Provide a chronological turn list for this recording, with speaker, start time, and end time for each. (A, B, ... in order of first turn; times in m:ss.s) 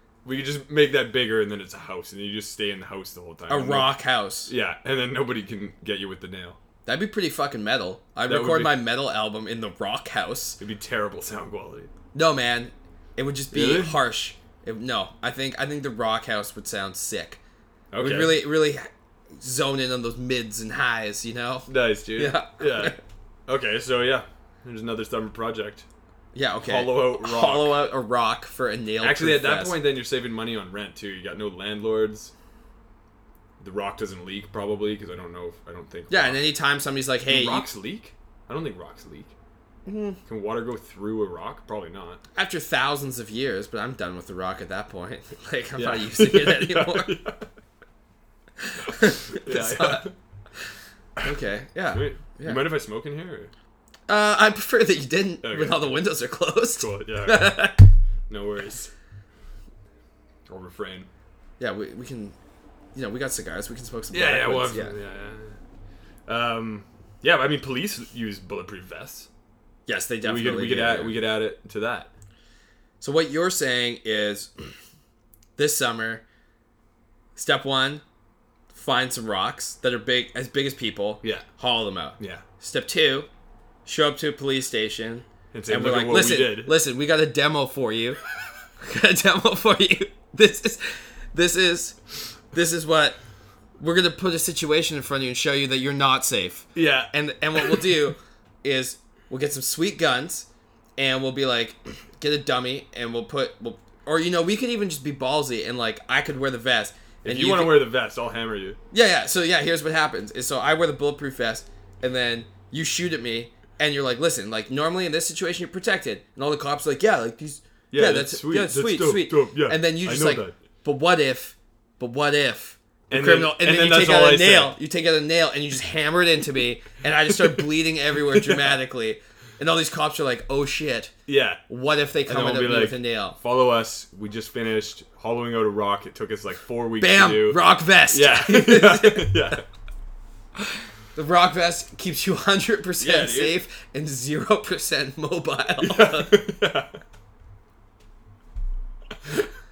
0:00.2-0:03.9 A
0:03.5-0:04.5 B
0:04.5-0:06.6 A
0:06.8-0:10.6 B
0:08.2-0:08.8 A
0:10.6-0:11.9 A
0:12.1-0:17.4 B
0:13.5-0:14.0 A
0:17.9-0:18.4 A
0:18.0-0:23.0 B
0:21.7-0:23.0 A
0:23.5-0:25.8 A
0:26.3-0:29.8 B
0:26.6-0:27.8 A
0:29.0-0:32.3 A
0:33.6-0:36.4 A
0:36.1-0:37.7 B
0:37.2-0:39.3 A
0:39.8-0:40.2 B
0:40.2-0:42.2 A
0:42.3-0:47.2 B
0:45.8-0:47.5 A
0:48.6-0:50.1 B
0:49.2-0:50.1 A
0:51.2-0:52.7 B
0:51.9-0:53.5 A
0:54.1-0:57.9 B
0:55.4-0:56.0 A
0:56.8-0:57.7 A
0:58.3-0:58.9 A
1:00.5-1:01.1 A
1:01.6-1:02.4 B
1:02.9-1:04.9 B
1:04.1-1:05.6 A
1:06.3-1:09.3 A
1:09.9-1:11.2 B
1:10.2-1:12.1 A
1:13.0-1:14.5 B
1:15.6-1:16.2 B
1:17.4-1:18.0 B
1:18.7-1:23.3 B
1:21.2-1:21.5 A
1:22.2-1:22.4 A
1:23.8-1:28.2 B
1:25.5-1:26.7 A
1:28.8-1:32.0 B
1:32.5-1:33.2 B
1:33.8-1:47.9 B
1:36.7-1:37.9 A
1:47.2-1:48.8 A
1:48.9-2:11.1 B
1:57.9-2:00.5 A
2:03.1-2:04.8 A
2:07.3-2:07.6 A
2:08.3-2:08.7 A
2:11.3-2:11.6 A
2:11.7-2:13.4 B
2:12.2-2:19.6 A
2:17.0-2:19.6 B
2:21.1-2:26.4 B
2:23.0-2:23.6 A
2:25.8-2:27.0 A